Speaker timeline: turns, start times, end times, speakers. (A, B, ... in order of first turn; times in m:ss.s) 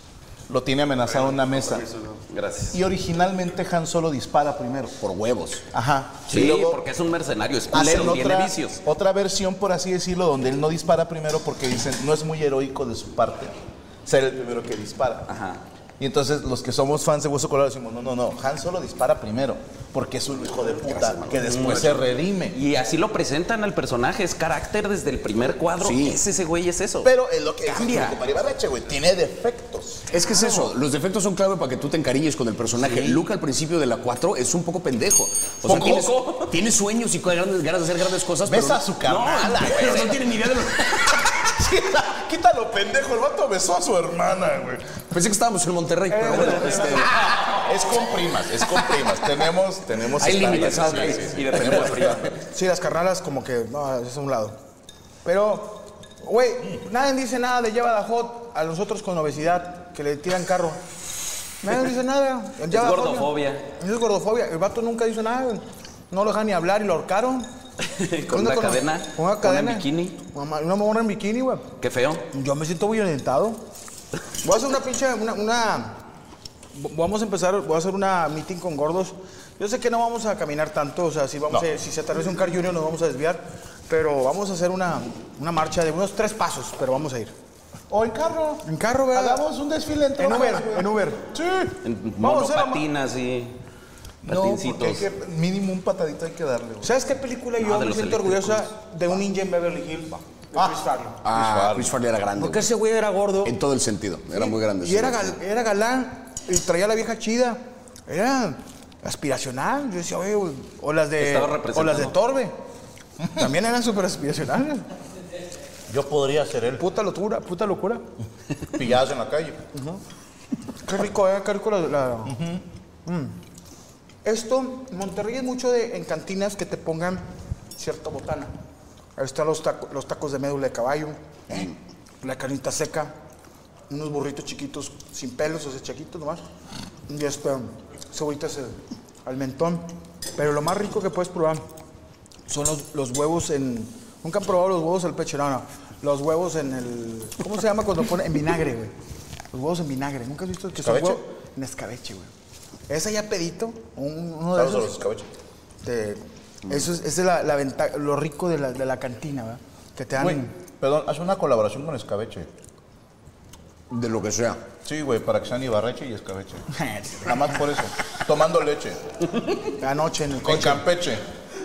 0:00.5-0:01.9 A
0:01.1-0:02.8 B
0:02.7-0:05.0 A
0:05.0-0:05.6 C
0:05.7-0:06.8 A
0:06.3-0:08.8 B
0:07.7-0:15.3 A
0:15.3-0:15.6 B
0:16.0-0:22.6 A
0:20.9-0:27.1 B
0:25.8-0:26.2 C
0:27.0-0:30.0 A
0:27.6-0:28.2 B
0:30.1-0:41.5 C
0:30.3-0:30.7 B
0:32.7-0:33.2 B
0:35.6-0:36.6 B
0:35.6-0:36.1 A
0:38.4-0:40.2 A
0:39.0-0:40.2 B
0:41.3-0:45.0 A
0:45.1-0:47.6 C
0:46.1-0:47.1 D
0:46.2-0:47.5 B
0:47.6-0:52.4 A
0:50.2-0:52.2 C
0:50.3-0:52.4 B
0:52.5-0:54.6 D
0:55.2-1:00.8 D
1:01.6-1:07.5 D
1:02.7-1:03.6 B
1:07.8-1:10.2 B
1:08.2-1:11.7 D
1:11.8-1:12.2 B
1:12.3-1:13.6 D
1:14.4-1:16.0 D
1:16.7-1:27.3 D
1:27.9-1:31.8 A
1:28.6-1:29.4 D
1:30.2-1:31.2 D
1:31.8-1:33.6 B
1:32.2-1:32.8 D
1:34.2-1:37.0 A
1:34.2-1:35.0 B
1:36.8-1:41.2 D
1:37.6-1:38.7 B
1:40.5-1:42.0 A
1:41.2-1:42.7 C
1:42.4-1:43.6 D
1:43.4-1:45.4 C
1:44.3-1:52.6 D
1:51.2-1:52.1 B
1:53.3-1:54.9 D
1:55.9-1:56.8 A
1:56.8-1:58.0 D
1:58.7-1:59.6 A
1:59.7-2:00.0 D
2:00.8-2:02.4 D
2:02.2-2:02.6 A
2:03.1-2:03.4 D
2:04.2-2:07.2 D
2:07.8-2:08.5 D
2:09.2-2:13.1 D
2:13.9-2:16.4 D
2:17.1-2:21.7 D
2:22.5-2:28.9 D
2:29.5-2:32.3 D
2:30.8-2:31.2 A
2:32.9-2:34.9 D
2:34.5-2:35.3 A
2:35.8-2:40.5 D
2:40.2-2:42.5 A
2:43.9-2:44.6 C
2:44.8-2:46.6 A
2:46.7-2:47.7 D
2:47.2-2:49.0 A
2:49.7-2:50.8 D
2:50.4-2:51.2 A